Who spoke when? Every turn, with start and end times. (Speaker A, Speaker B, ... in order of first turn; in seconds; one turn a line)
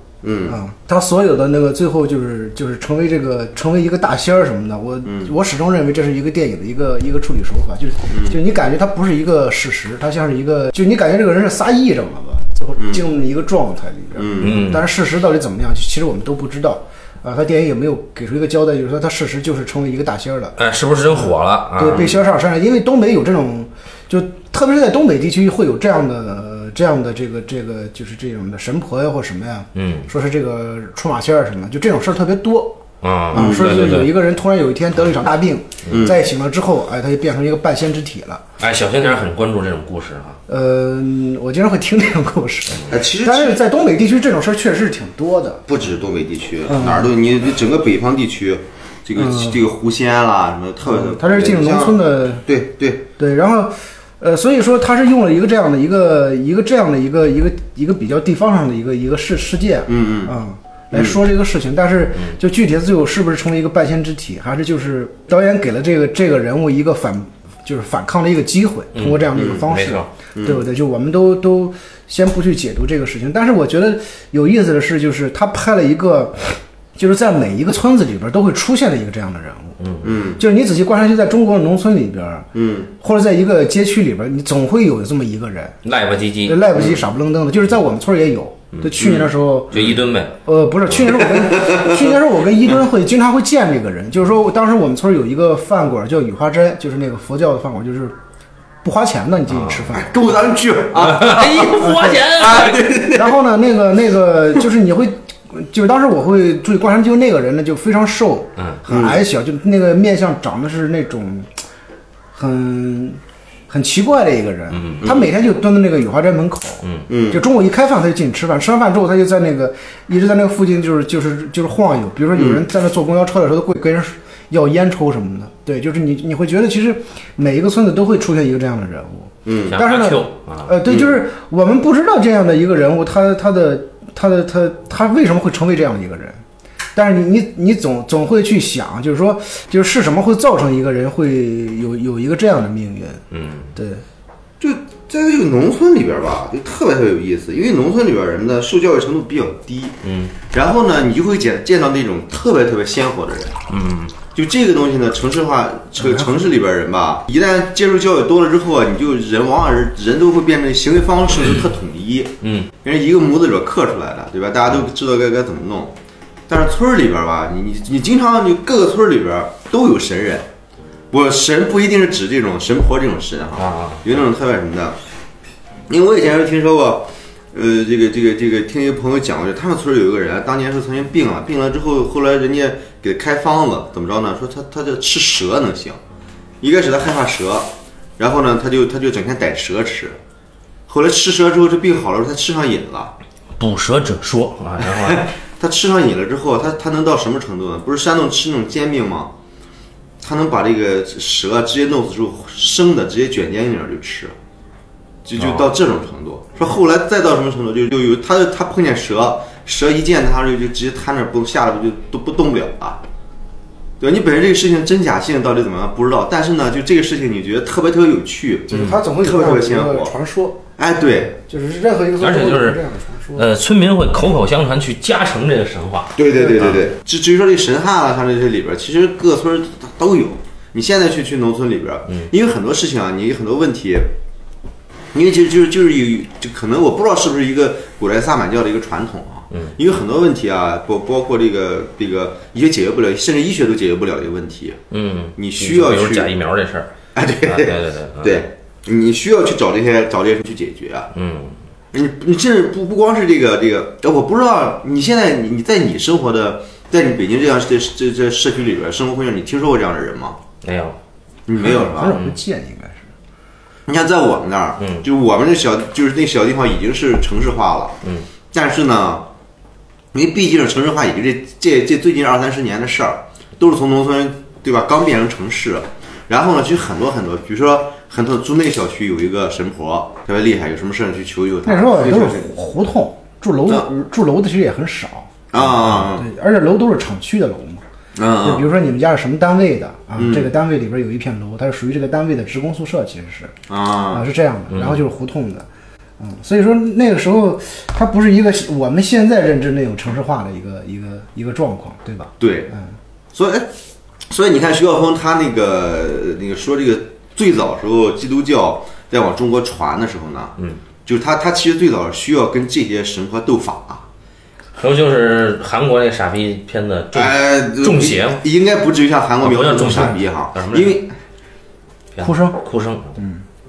Speaker A: 0.2-0.6
Speaker B: 0.5-20.6
Speaker A: 5.0-5.3
Speaker A: 8.1-8.4
Speaker A: 14.2-14.6
Speaker C: 14.4-14.9
Speaker C: 20.6-22.1
Speaker B: 21.1-32.8
Speaker C: 29.8-30.1
Speaker C: 33.0-34.1
Speaker B: 33.3-38.4
Speaker A: 33.3-34.0
Speaker C: 35.9-36.1
Speaker A: 35.9-36.2
Speaker C: 38.6-40.4
Speaker B: 40.5-45.6
Speaker A: 42.9-43.6
Speaker A: 45.7-53.0
Speaker B: 46.7-47.1
Speaker B: 49.2-49.6
Speaker B: 50.8-52.5
Speaker B: 53.2-79.8
Speaker A: 59.9-60.4
Speaker A: 60.9-61.2
Speaker C: 69.0-70.1
Speaker A: 69.3-69.7
Speaker A: 70.3-70.6
Speaker C: 79.8-80.2
Speaker A: 80.0-80.4
Speaker B: 80.4-85.8
Speaker A: 82.5-82.9
Speaker C: 85.8-86.7
Speaker B: 86.5-89.9
Speaker A: 86.8-87.0
Speaker C: 88.7-90.4
Speaker A: 89.0-90.0
Speaker B: 90.5-98.2
Speaker A: 91.1-92.2
Speaker B: 98.8-100.4
Speaker C: 99.5-99.9
Speaker A: 100.0-103.4
Speaker C: 100.9-102.9
Speaker B: 101.7-102.3
Speaker B: 103.0-111.5
Speaker A: 108.9-109.2
Speaker B: 112.3-136.4
Speaker C: 114.7-115.1
Speaker A: 115.0-115.3
Speaker C: 116.8-117.1
Speaker A: 117.1-117.4
Speaker A: 122.3-122.6
Speaker A: 129.4-129.8
Speaker C: 129.7-130.8
Speaker A: 130.9-131.2
Speaker B: 136.9-143.2
Speaker C: 143.3-143.7
Speaker B: 143.8-144.0
Speaker A: 144.6-150.0
Speaker C: 150.0-150.3
Speaker A: 150.5-153.6
Speaker C: 153.7-154.2
Speaker A: 154.3-166.0
Speaker B: 156.0-156.4
Speaker C: 162.4-162.7
Speaker A: 166.5-170.5
Speaker A: 171.1-175.0
Speaker C: 173.6-174.1
Speaker A: 175.9-186.0
Speaker A: 186.6-190.2
Speaker A: 190.9-193.1
Speaker C: 193.6-195.3
Speaker A: 194.8-199.3
Speaker A: 200.2-204.3
Speaker A: 205.2-213.0
Speaker C: 205.4-205.7
Speaker A: 214.0-220.1
Speaker B: 218.7-220.6
Speaker A: 220.8-221.3
Speaker B: 221.3-223.5
Speaker C: 222.2-222.8
Speaker C: 223.3-226.9
Speaker A: 226.2-234.1
Speaker B: 226.3-226.7
Speaker A: 235.1-244.8
Speaker C: 239.5-239.8
Speaker C: 244.9-248.5
Speaker A: 245.4-246.3
Speaker A: 247.2-251.1
Speaker C: 251.1-251.6
Speaker A: 251.9-260.4
Speaker C: 260.6-261.0
Speaker A: 261.5-262.2
Speaker B: 261.6-263.1
Speaker C: 262.1-262.4
Speaker A: 263.9-268.0
Speaker C: 264.8-265.1
Speaker A: 268.5-269.3
Speaker A: 270.1-282.5
Speaker B: 281.7-285.4
Speaker A: 285.5-286.3
Speaker B: 285.9-287.8
Speaker A: 288.2-288.7
Speaker B: 288.4-293.6
Speaker A: 290.2-290.5
Speaker A: 293.7-294.3
Speaker B: 294.1-295.7
Speaker C: 294.7-295.0
Speaker B: 296.2-302.9
Speaker A: 302.4-302.7
Speaker A: 303.3-303.7
Speaker A: 304.3-314.1
Speaker C: 314.8-318.4
Speaker A: 317.1-321.1
Speaker C: 319.4-321.0
Speaker C: 322.1-323.2
Speaker B: 322.2-322.6
Speaker B: 323.2-323.4